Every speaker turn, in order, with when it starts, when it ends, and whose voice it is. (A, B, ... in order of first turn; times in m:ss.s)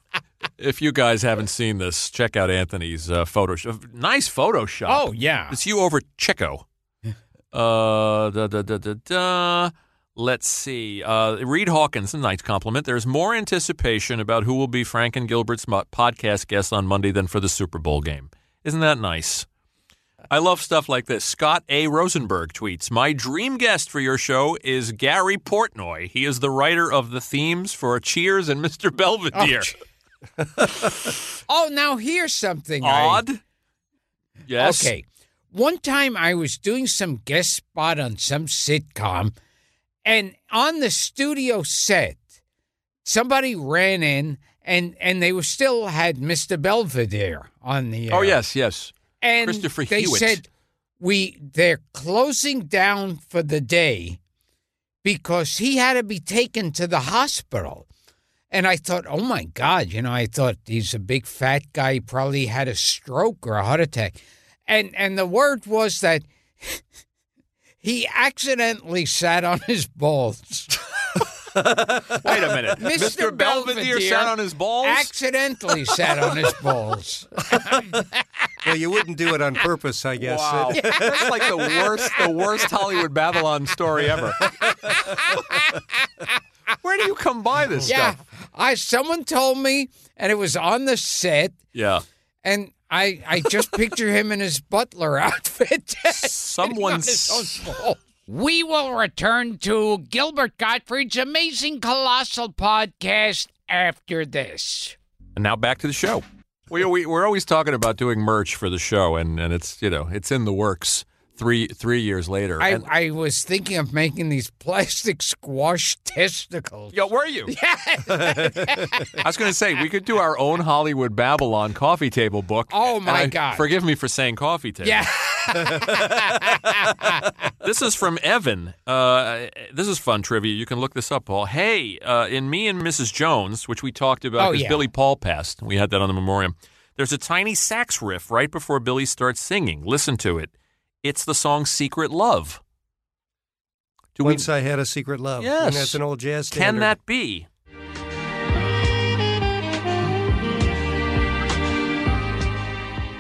0:00.6-0:06.6 A
0:04.9-0:05.6 B
0:07.5-0:19.5 A
0:20.3-0:29.7 A
0:29.4-0:29.7 B
0:30.8-0:31.1 A
0:31.5-0:33.2 B
0:32.8-0:33.4 A
0:34.5-0:34.9 A
0:34.6-0:39.3 B
0:40.0-0:42.2 B
0:43.0-0:48.4 B
0:48.1-0:50.4 A
0:49.2-0:50.5 B
0:51.0-0:54.2 B
0:55.0-0:57.9 B
0:58.5-1:06.8 B
1:07.8-1:10.8 B
1:11.6-1:12.5 C
1:12.2-1:15.1 A
1:12.8-1:18.1 B
1:18.6-1:21.7 C
1:20.2-1:24.4 A
1:20.8-1:21.5 B
1:24.6-1:26.2 B
1:26.8-1:28.2 A
1:27.8-1:31.6 B
1:31.7-1:32.0 A
1:32.4-1:45.0 B
1:36.2-1:37.6 A
1:45.4-1:52.8 A
1:52.6-1:56.9 B
1:56.9-1:57.5 A
1:57.5-1:59.2 B
1:58.1-1:59.1 C
1:59.2-2:05.0 A
2:02.7-2:03.7 B
2:04.8-2:07.3 B
2:07.6-2:20.5 A
2:14.4-2:14.9 B
2:21.0-2:22.6 A
2:24.2-2:24.5 A
2:24.2-2:26.9 C
2:25.4-2:26.0 A
2:26.5-2:27.5 A